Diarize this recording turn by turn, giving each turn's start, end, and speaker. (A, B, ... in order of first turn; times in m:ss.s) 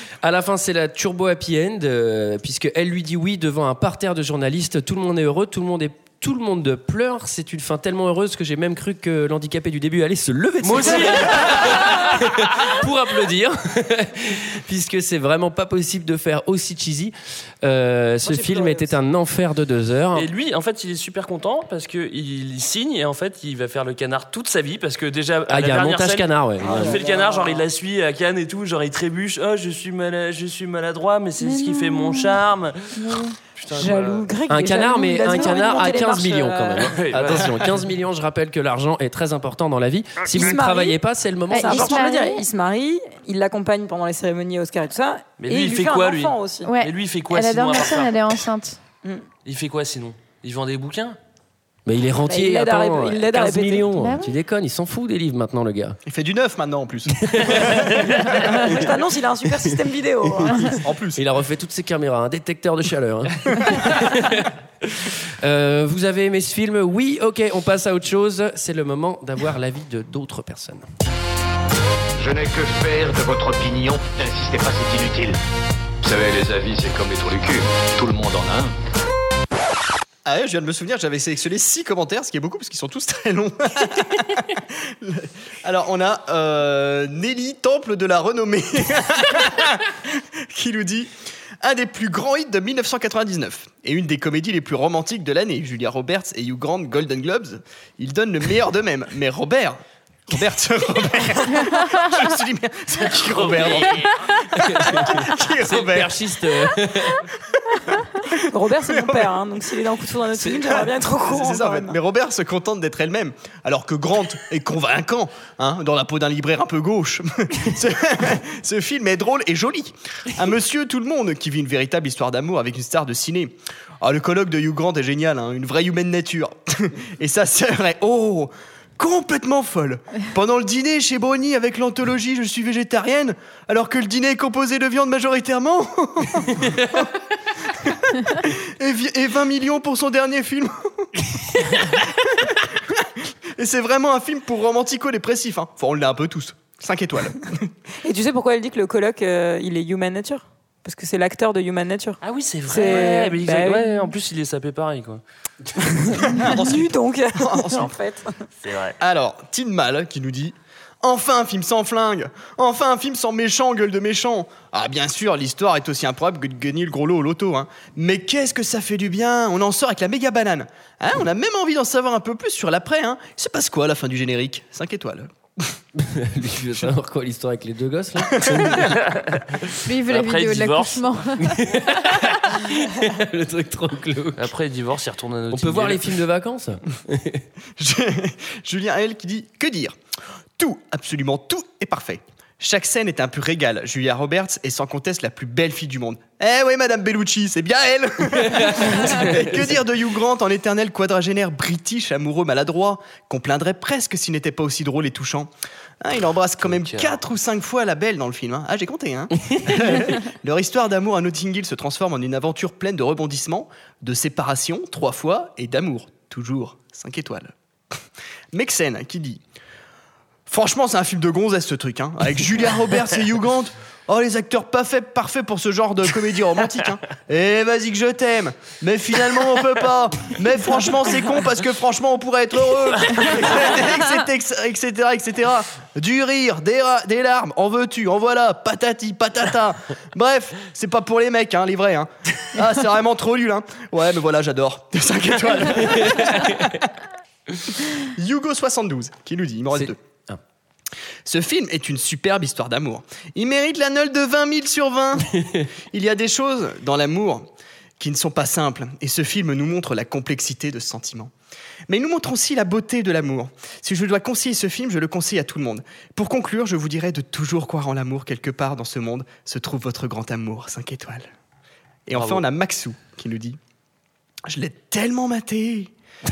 0:00.2-0:20.3 A
0:10.6-0:12.0 B
0:18.2-0:18.9 C
0:20.1-0:32.9 B
0:25.5-0:27.0 A
0:26.6-0:27.6 C
0:31.4-0:33.4 D
0:33.6-0:34.3 B
0:33.7-0:36.9 C
0:34.5-0:42.0 A
0:36.9-0:37.8 B
0:40.3-0:41.0 C
0:41.5-0:42.4 D
0:41.6-0:46.7 C
0:45.4-0:48.2 B
0:46.6-0:48.8 D
0:49.4-0:51.2 B
0:51.8-0:56.0 A
0:52.3-0:53.9 C
0:54.0-0:54.4 D
0:56.0-0:58.9 E
0:57.2-0:58.6 A
0:58.5-1:00.7 C
0:59.5-0:59.7 A
1:00.4-1:10.8 A
1:00.8-1:01.2 E
1:12.2-1:15.4 F
1:16.0-1:18.7 F
1:20.2-1:46.2 E
1:43.2-1:44.2 B
1:44.5-1:47.2 A
1:47.9-1:49.4 E
1:48.5-1:52.0 C
1:50.4-1:50.7 A
1:51.2-2:22.7 E
2:23.6-2:27.7 E
2:28.0-2:34.1 C
2:32.2-2:35.2 B
2:32.9-2:33.1 E
2:36.0-2:37.9 E
2:36.2-2:38.4 C
2:38.6-2:39.0 B
2:39.0-2:55.7 E
2:55.9-2:58.9 A
2:58.3-2:59.0 E
2:58.9-3:01.1 B
2:59.8-3:01.6 D
3:01.4-3:04.5 A
3:04.4-3:06.1 B
3:05.5-3:07.4 A
3:07.8-3:09.9 E
3:10.6-3:25.5 E
3:18.4-3:19.8 A
3:26.0-3:37.5 E
3:26.6-3:27.2 B
3:29.5-3:29.8 A
3:38.5-3:39.4 E
3:40.5-4:06.9 E
4:06.0-4:06.5 A
4:07.6-4:10.0 E
4:09.7-4:10.4 A
4:11.2-4:17.5 E
4:15.3-4:15.6 A
4:18.0-4:21.3 E
4:21.9-4:31.3 E
4:32.1-4:33.6 E
4:34.5-4:35.9 E